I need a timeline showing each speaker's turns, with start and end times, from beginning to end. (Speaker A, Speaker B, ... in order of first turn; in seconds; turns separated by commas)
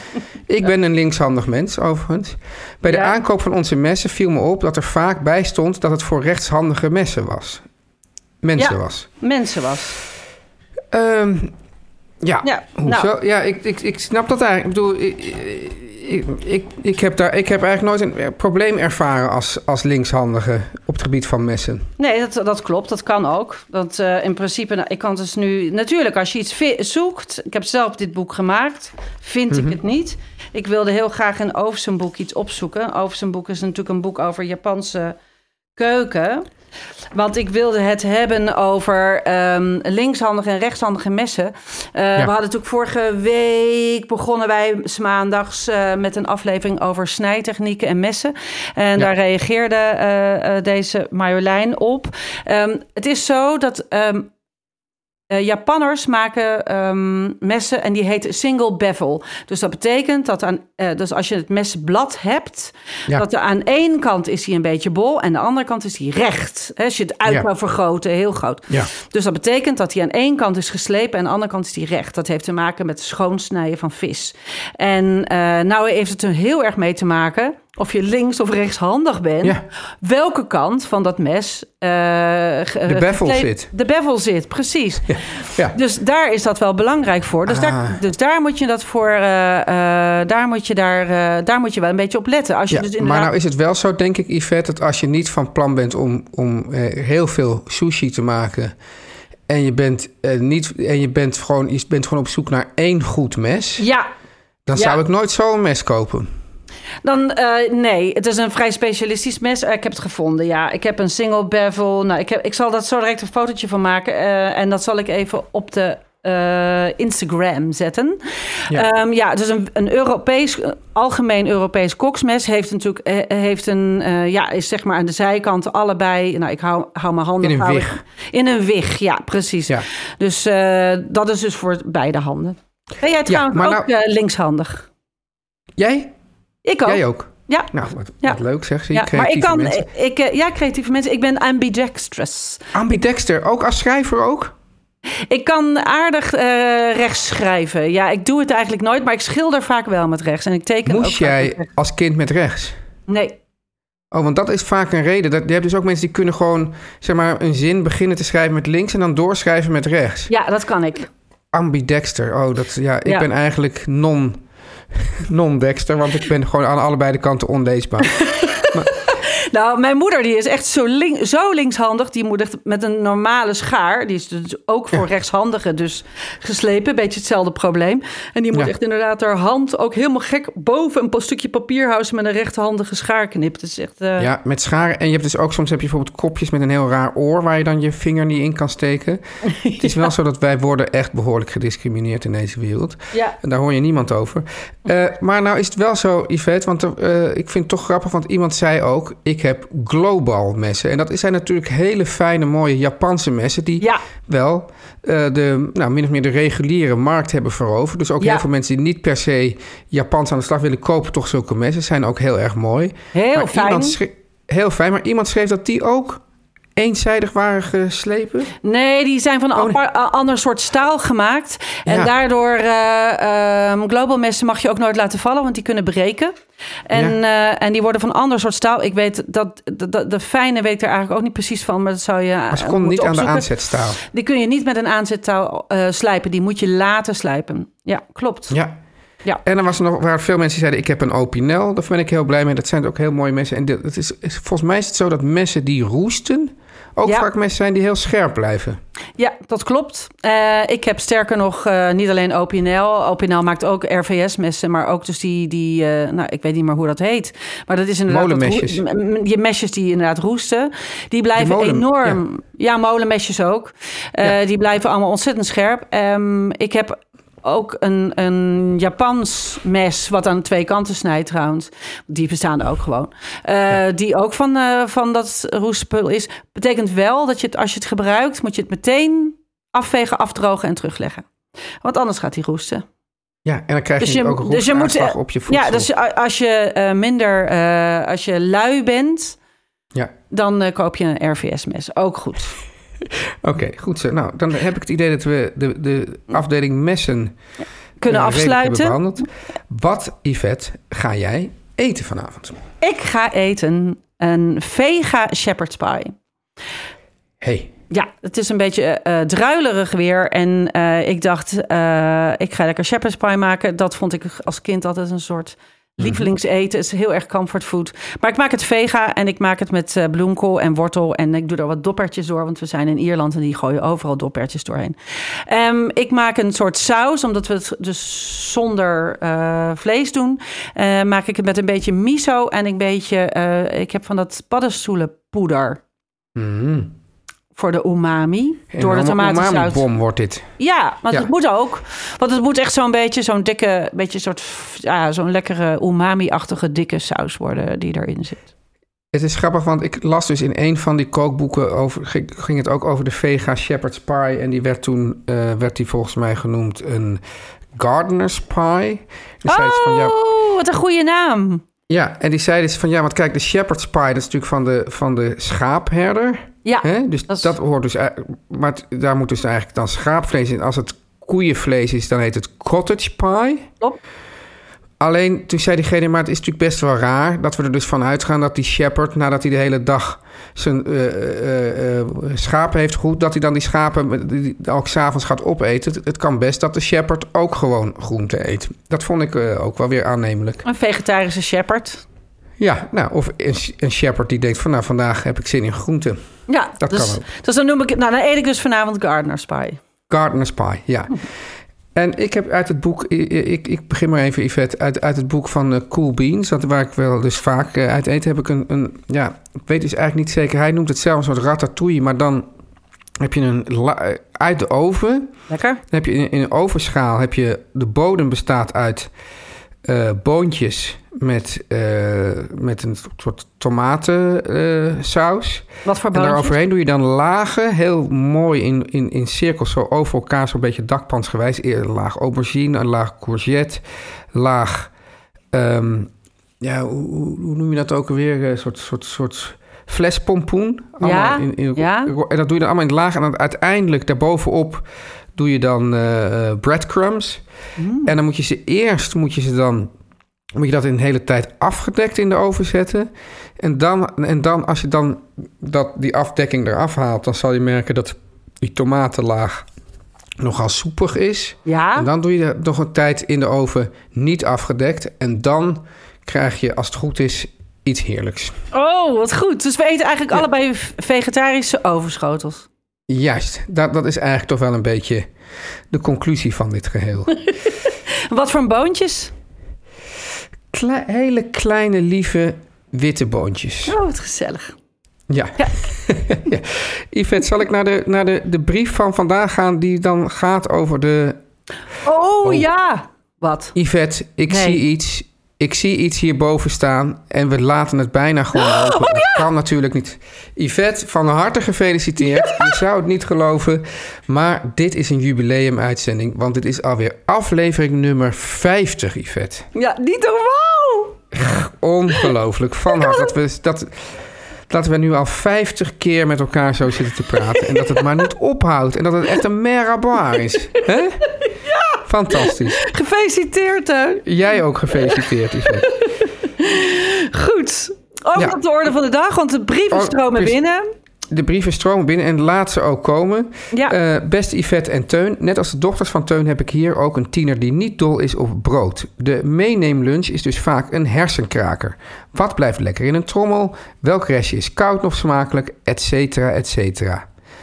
Speaker A: 0.5-7.6, Speaker B: 2.9-3.2, Speaker A: 8.4-9.1, Speaker B: 8.6-10.0, Speaker A: 10.9-11.5, Speaker A: 12.2-21.9, Speaker B: 12.4-13.1, Speaker B: 22.0-35.2, Speaker A: 29.5-29.8, Speaker B: 35.8-36.5, Speaker B: 37.1-54.3, Speaker B: 55.3-93.3, Speaker A: 82.8-83.7, Speaker A: 85.1-85.8, Speaker A: 87.5-88.0, Speaker A: 92.7-98.7, Speaker A: 99.5-103.8, Speaker B: 103.8-104.1, Speaker A: 104.7-106.3, Speaker B: 107.0-134.8, Speaker A: 127.4-128.0, Speaker A: 133.3-133.8, Speaker A: 135.8-136.1, Speaker B: 136.6-137.7, Speaker A: 136.8-139.9, Speaker B: 138.9-142.7, Speaker A: 142.7-144.5, Speaker B: 145.3-151.7, Speaker A: 150.8-152.8, Speaker B: 153.1-153.4, Speaker A: 154.1-160.3, Speaker B: 160.3-161.1, Speaker A: 161.5-164.4, Speaker A: 164.9-168.9, Speaker B: 168.2-184.3, Speaker A: 184.2-216.2, Speaker B: 189.4-190.1, Speaker B: 213.1-214.0, Speaker A: 216.8-218.5, Speaker B: 218.6-226.3, Speaker B: 226.9-238.6, Speaker A: 232.5-234.0, Speaker A: 238.5-238.8, Speaker A: 239.4-248.8, Speaker B: 249.2-281.2, Speaker A: 258.1-258.8, Speaker A: 261.4-262.2, Speaker B: 281.8-282.8, Speaker A: 283.4-285.9, Speaker B: 284.0-289.4, Speaker B: 290.3-292.5, Speaker A: 293.4-297.4, Speaker B: 298.0-299.0, Speaker A: 298.1-302.6, Speaker B: 302.8-306.1, Speaker A: 307.4-307.7, Speaker B: 307.9-324.9, Speaker B: 325.5-335.8, Speaker A: 336.3-336.9, Speaker B: 337.5-339.8, Speaker A: 338.7-340.4, Speaker B: 340.6-348.4, Speaker A: 349.1-357.2, Speaker A: 357.7-360.1, Speaker B: 359.5-361.6, Speaker A: 361.9-373.7, Speaker B: 366.6-367.5, Speaker A: 375.0-390.6, Speaker B: 390.6-392.0, Speaker A: 392.6-396.2, Speaker B: 396.5-399.8, Speaker A: 396.8-397.2, Speaker A: 400.1-401.1, Speaker A: 401.9-412.5, Speaker A: 413.2-415.3, Speaker B: 415.5-415.8, Speaker A: 415.9-419.1, Speaker A: 419.8-434.9, Speaker B: 425.8-426.5, Speaker A: 435.5-436.1, Speaker A: 436.6-444.8, Speaker B: 441.0-442.1, Speaker A: 445.4-447.4, Speaker B: 447.8-448.1, Speaker A: 448.1-449.9, Speaker A: 450.5-459.6, Speaker A: 460.4-468.6, Speaker B: 461.6-462.1, Speaker B: 468.7-472.7, Speaker A: 473.1-475.3, Speaker A: 475.9-477.3, Speaker B: 477.4-479.3, Speaker A: 480.7-483.9, Speaker B: 483.9-484.7, Speaker A: 485.3-491.4, Speaker B: 492.0-493.7, Speaker A: 493.7-509.6, Speaker B: 494.5-494.8, Speaker B: 498.6-499.4, Speaker B: 502.2-502.8, Speaker B: 509.7-511.2, Speaker A: 511.4-514.1, Speaker B: 513.0-513.3, Speaker A: 514.7-521.3, Speaker B: 517.6-518.0, Speaker B: 521.4-524.2, Speaker A: 522.0-522.8, Speaker A: 524.2-525.9, Speaker B: 524.9-530.8, Speaker A: 529.9-530.5, Speaker A: 531.3-547.2